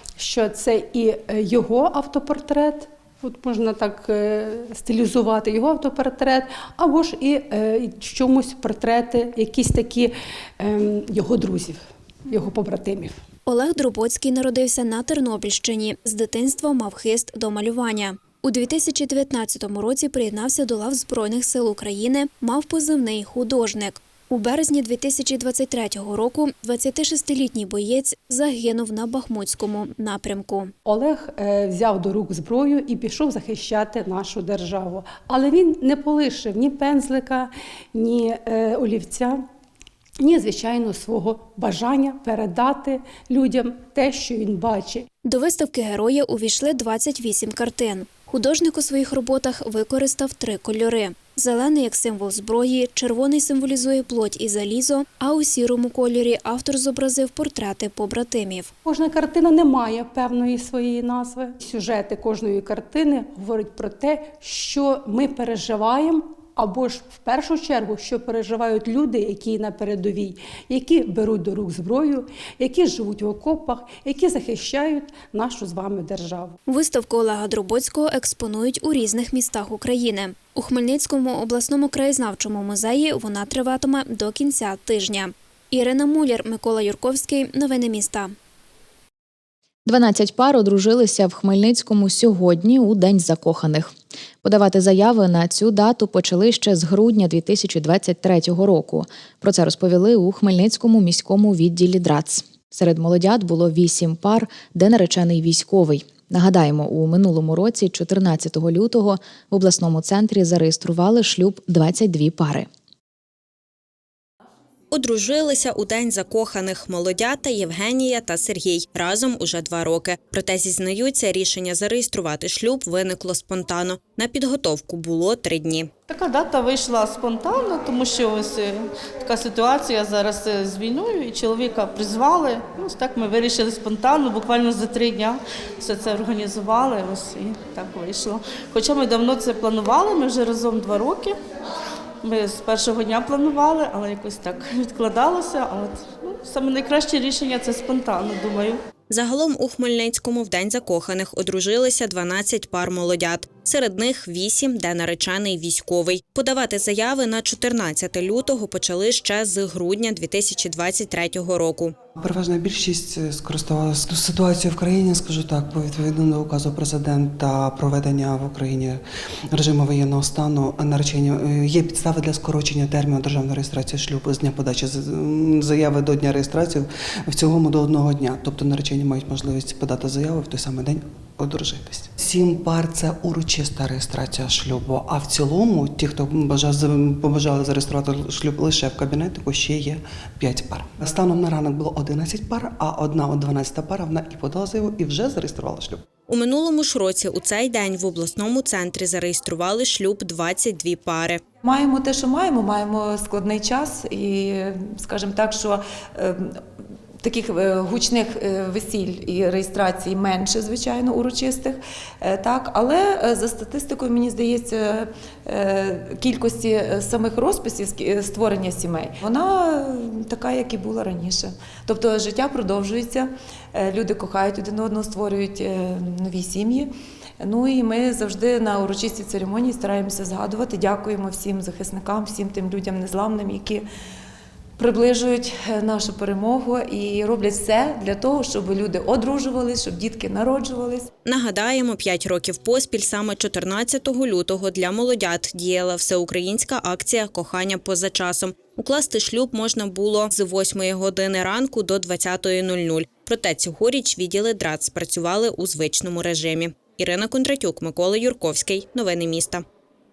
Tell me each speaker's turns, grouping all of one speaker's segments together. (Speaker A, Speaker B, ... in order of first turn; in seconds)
Speaker A: 0.2-13.2, 30.9-39.4, 40.2-45.1, 58.8-76.6
Speaker B: 13.4-30.7, 45.3-58.7, 76.7-88.3
Speaker C: 89.8-93.9, 94.4-112.7
Speaker D: 114.9-125.9, 149.1-161.9, 196.3-201.4, 241.2-259.6
Speaker E: 126.1-141.4, 142.2-148.8
Speaker F: 162.2-169.0, 169.5-196.0
Speaker G: 201.6-206.6, 207.2-233.8, 234.8-241.1